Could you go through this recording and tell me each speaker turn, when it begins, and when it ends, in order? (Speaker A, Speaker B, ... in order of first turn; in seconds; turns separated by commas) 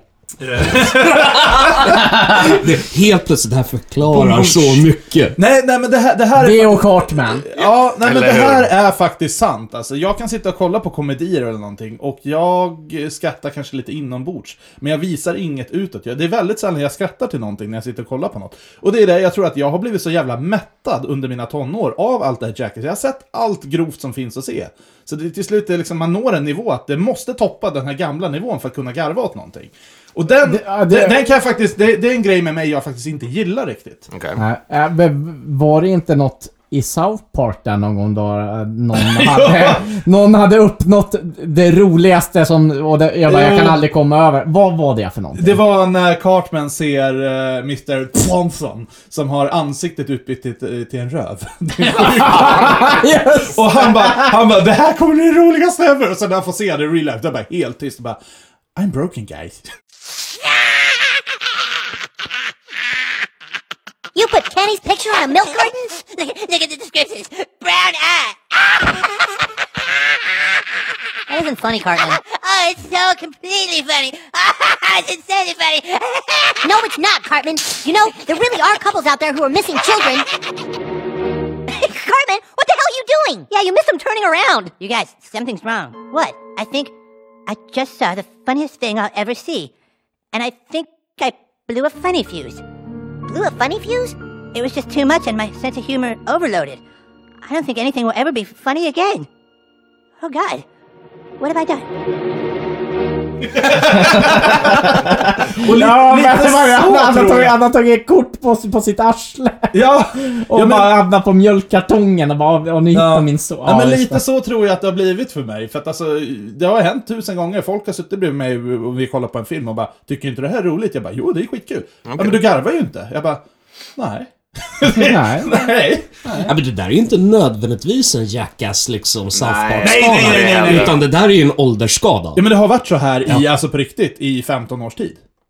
Speaker A: 0.4-2.6, Speaker B: 1.8-5.4, Speaker A: 4.1-34.1, Speaker C: 6.3-7.4, Speaker D: 7.5-8.7, Speaker C: 30.4-31.2, Speaker D: 34.1-34.4, Speaker C: 34.4-45.6, Speaker A: 39.0-39.8, Speaker A: 43.3-43.8, Speaker A: 45.4-58.2, Speaker C: 51.8-54.3, Speaker D: 52.1-52.9, Speaker A: 58.8-59.6, Speaker E: 64.1-69.0, Speaker E: 71.3-80.3, Speaker E: 81.7-86.9, Speaker E: 87.5-89.7, Speaker E: 90.3-92.6, Speaker E: 93.3-96.8, Speaker E: 97.4-99.3, Speaker E: 100.2-100.6, Speaker E: 101.4-101.8, Speaker A: 103.5-107.5, Speaker C: 103.7-114.2, Speaker A: 109.7-111.0, Speaker A: 112.9-123.4, Speaker D: 122.0-122.4, Speaker A: 124.0-126.5, Speaker C: 124.8-125.7, Speaker B: 126.4-132.5, Speaker D: 129.3-131.0, Speaker A: 129.8-130.9, Speaker A: 132.3-135.2